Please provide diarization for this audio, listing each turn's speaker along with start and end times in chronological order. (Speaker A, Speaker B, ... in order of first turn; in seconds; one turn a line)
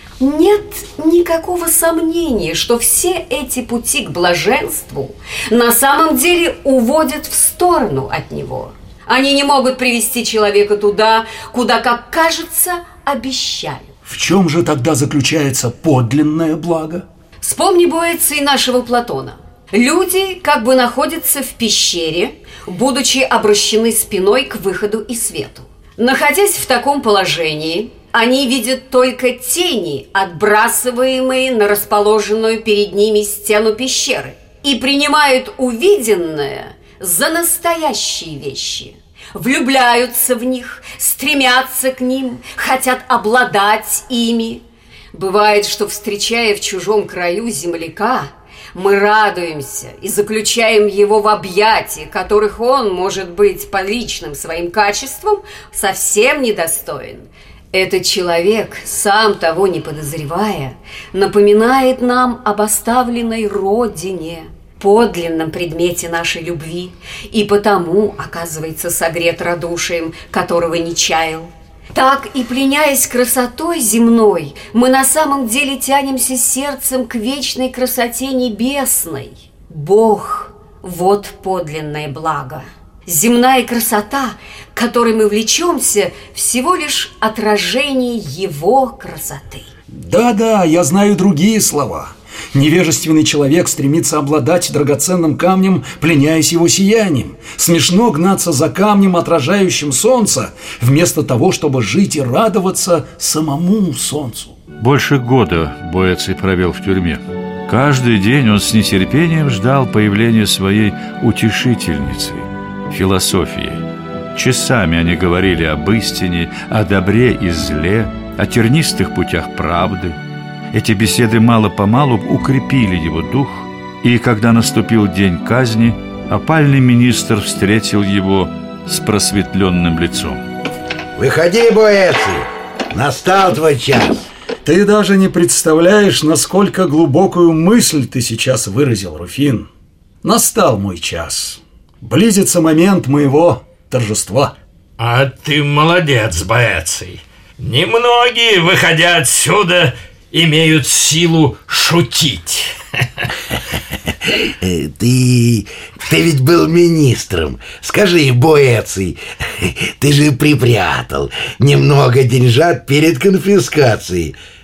Speaker A: 0.2-13.9
Speaker B: 14.1-17.1
Speaker A: 17.4-89.7
Speaker B: 89.9-104.6
Speaker C: 104.8-113.8
Speaker C: 114.3-120.2
Speaker C: 120.7-130.4
Speaker D: 131.2-134.3
Speaker B: 134.6-139.7
Speaker B: 140.2-144.6
Speaker E: 145.0-153.3
Speaker D: 154.2-164.4